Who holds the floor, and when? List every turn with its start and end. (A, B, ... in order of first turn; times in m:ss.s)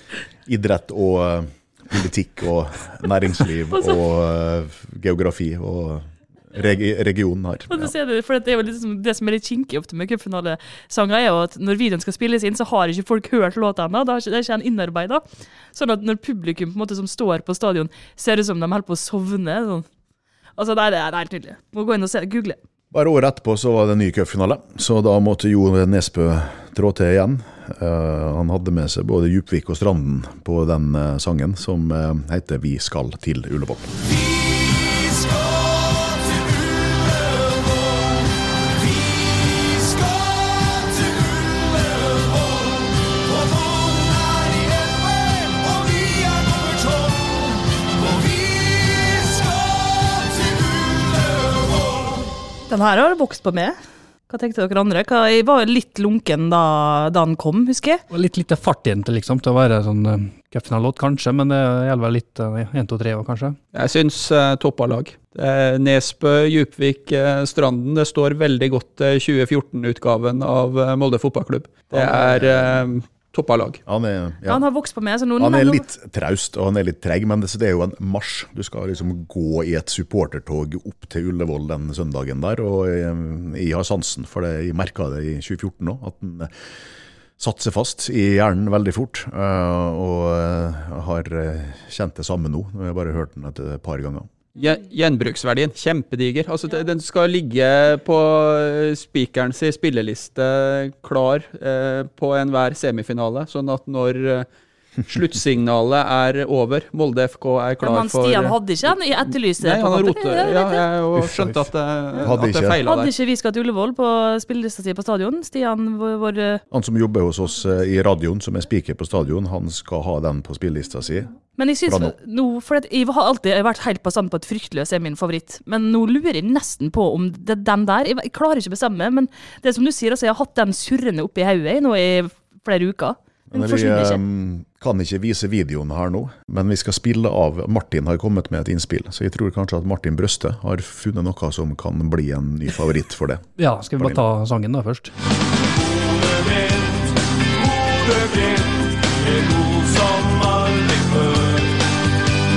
0:00.4-0:07.9 A
0:07.7-0:19.8 B
0:20.6-0:22.6 B
0:22.9-0:34.0 A
0:34.1-0:38.0 C
0:38.8-0:52.1 C
0:52.7-0:53.8 B
0:54.3-0:58.0 B
0:58.1-1:03.6 D
1:03.7-1:13.8 E
1:11.9-1:12.9 A
1:13.9-1:14.6 A
1:14.5-1:15.8 B
1:15.4-1:26.5 A
1:27.4-1:34.3 A
1:34.6-1:44.5 E
1:45.1-1:48.6 E
1:47.8-1:50.8 B
1:49.6-1:53.1 E
1:51.2-1:51.6 D
1:52.2-1:52.8 A
1:52.8-1:56.6 B
1:56.7-2:01.3 A
2:01.6-2:14.2 B
2:01.8-2:02.1 A
2:13.5-2:23.5 A
2:23.6-2:25.1 D
2:25.8-2:31.6 C